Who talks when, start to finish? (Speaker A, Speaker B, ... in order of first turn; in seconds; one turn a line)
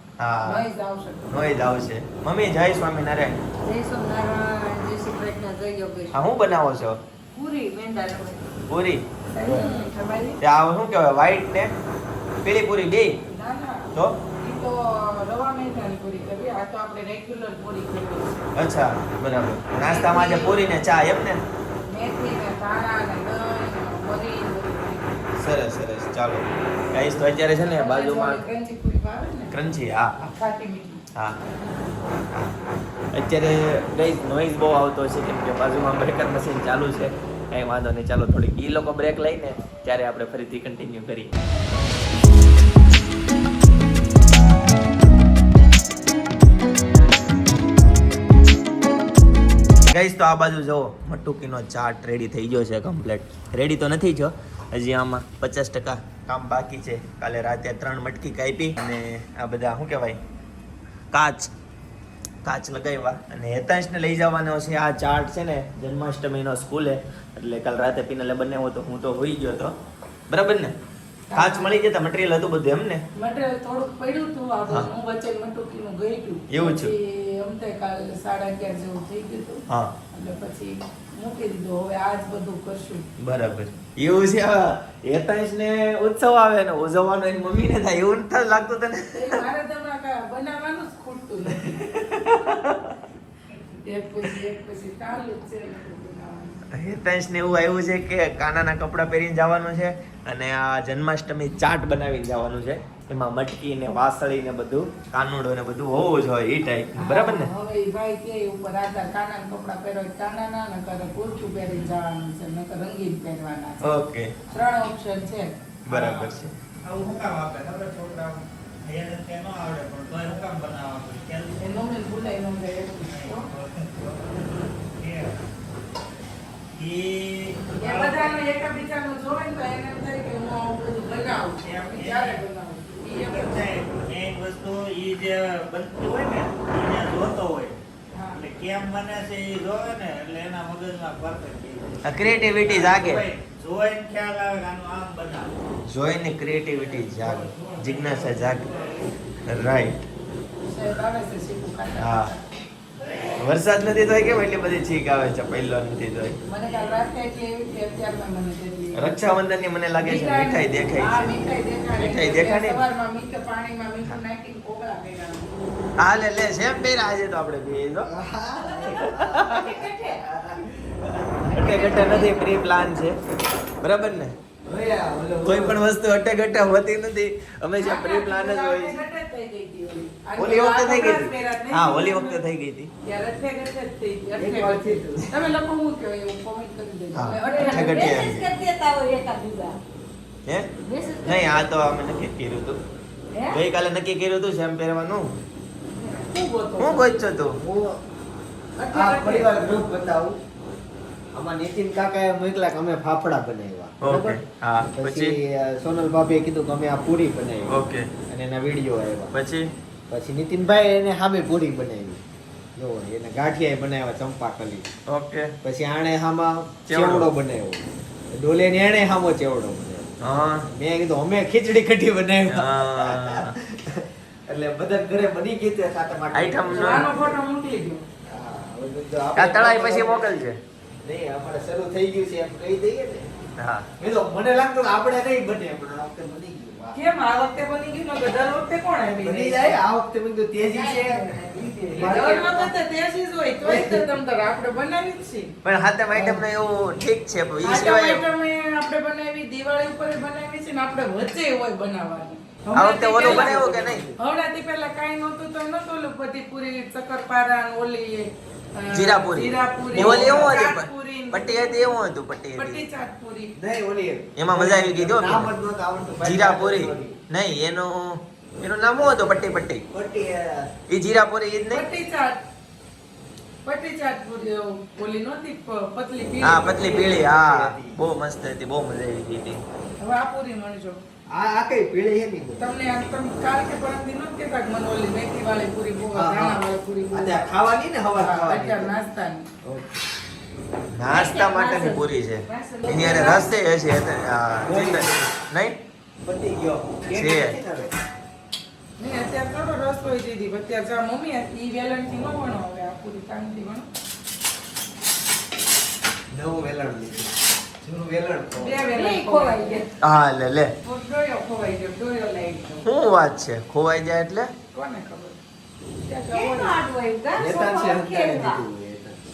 Speaker A: 0.2-0.6
Speaker B: 0.4-1.5
Speaker A: 1.3-3.4
Speaker C: 3.6-6.2
Speaker A: 6.1-7.0
Speaker C: 7.3-8.5
Speaker A: 8.7-9.7
Speaker B: 9.3-10.4
Speaker A: 10.4-11.7
Speaker A: 12.4-13.1
Speaker B: 13.3-13.9
Speaker B: 14.4-18.4
Speaker A: 18.6-21.4
Speaker B: 19.8-20.7
Speaker B: 21.9-25.3
Speaker A: 25.4-28.4
Speaker B: 27.7-29.5
Speaker A: 29.5-30.1
Speaker B: 30.2-31.0
Speaker A: 31.1-31.4
Speaker A: 33.1-41.4
Speaker A: 49.9-60.2
Speaker A: 61.1-61.5
Speaker A: 62.4-69.8
Speaker A: 70.3-70.7
Speaker B: 71.3-71.8
Speaker A: 71.3-73.0
Speaker B: 73.2-83.1
Speaker A: 76.5-76.9
Speaker A: 83.2-89.4
Speaker B: 89.1-91.8
Speaker A: 91.6-92.9
Speaker B: 93.8-96.6
Speaker A: 96.7-107.5
Speaker B: 107.0-115.6
Speaker A: 113.8-114.3
Speaker A: 115.9-116.5
Speaker D: 115.9-121.6
Speaker B: 121.6-123.5
Speaker D: 123.1-125.4
Speaker D: 126.8-128.4
Speaker B: 127.7-133.7
Speaker D: 131.6-132.4
Speaker D: 133.2-137.8
Speaker B: 138.1-138.4
Speaker D: 138.3-145.5
Speaker A: 142.0-143.3
Speaker A: 145.9-148.7
Speaker D: 146.7-149.1
Speaker A: 149.5-150.1
Speaker B: 150.7-152.6
Speaker A: 152.0-152.3
Speaker A: 153.4-156.4
Speaker B: 156.4-159.4
Speaker A: 158.9-161.3
Speaker B: 160.0-165.5
Speaker A: 162.0-162.8
Speaker A: 166.0-168.1
Speaker E: 168.0-171.6
Speaker A: 168.9-169.7
Speaker B: 169.5-170.2
Speaker A: 171.5-173.2
Speaker B: 171.6-172.5
Speaker A: 173.8-174.3
Speaker E: 174.7-175.8
Speaker A: 175.4-179.0
Speaker B: 177.8-182.4
Speaker A: 180.4-182.9
Speaker B: 183.0-188.2
Speaker E: 184.4-185.3
Speaker A: 187.2-188.5
Speaker C: 187.4-189.8
Speaker C: 190.8-191.7
Speaker A: 191.2-192.8
Speaker C: 193.3-193.6
Speaker A: 193.5-195.3
Speaker C: 196.0-197.1
Speaker A: 196.8-197.6
Speaker E: 197.6-198.0
Speaker E: 198.8-200.4
Speaker C: 198.9-199.8
Speaker E: 201.3-204.4
Speaker A: 204.0-205.4
Speaker E: 204.9-207.7
Speaker A: 207.7-208.1
Speaker E: 208.3-209.3
Speaker A: 209.3-209.7
Speaker E: 210.1-212.2
Speaker E: 212.8-214.9
Speaker A: 215.1-215.6
Speaker E: 215.6-220.1
Speaker A: 216.9-217.3
Speaker A: 220.2-220.7
Speaker E: 220.7-227.3
Speaker A: 222.5-223.6
Speaker A: 226.3-227.1
Speaker B: 226.7-228.0
Speaker E: 228.2-230.3
Speaker A: 229.3-230.6
Speaker E: 231.0-233.3
Speaker A: 233.6-233.9
Speaker E: 234.0-237.0
Speaker B: 236.9-239.8
Speaker E: 239.1-242.7
Speaker B: 240.6-245.5
Speaker E: 243.6-244.1
Speaker A: 245.6-248.2
Speaker E: 246.1-246.5
Speaker B: 247.6-253.7
Speaker A: 252.8-254.0
Speaker E: 253.2-254.2
Speaker B: 254.2-262.0
Speaker A: 258.9-262.8
Speaker E: 259.9-260.6
Speaker B: 262.5-263.5
Speaker E: 263.6-267.2
Speaker A: 264.4-265.5
Speaker A: 266.2-269.8
Speaker E: 269.9-270.7
Speaker A: 270.9-271.9
Speaker B: 271.7-272.4
Speaker B: 273.6-277.2
Speaker A: 276.4-279.6
Speaker E: 277.2-278.0
Speaker B: 280.0-281.0
Speaker E: 281.3-282.6
Speaker B: 282.6-287.4
Speaker E: 286.1-286.6
Speaker E: 287.1-288.9
Speaker B: 288.1-289.5
Speaker E: 289.6-290.0
Speaker A: 290.9-295.8
Speaker C: 291.1-293.4
Speaker E: 294.6-295.4
Speaker E: 296.2-298.0
Speaker A: 297.1-297.6
Speaker B: 299.0-303.9
Speaker E: 306.3-308.8
Speaker B: 308.6-309.9
Speaker C: 308.9-309.9
Speaker A: 310.0-310.7
Speaker C: 310.8-312.9
Speaker A: 312.8-314.5
Speaker B: 314.7-315.4
Speaker B: 316.0-316.8
Speaker C: 316.3-318.6
Speaker E: 317.4-319.2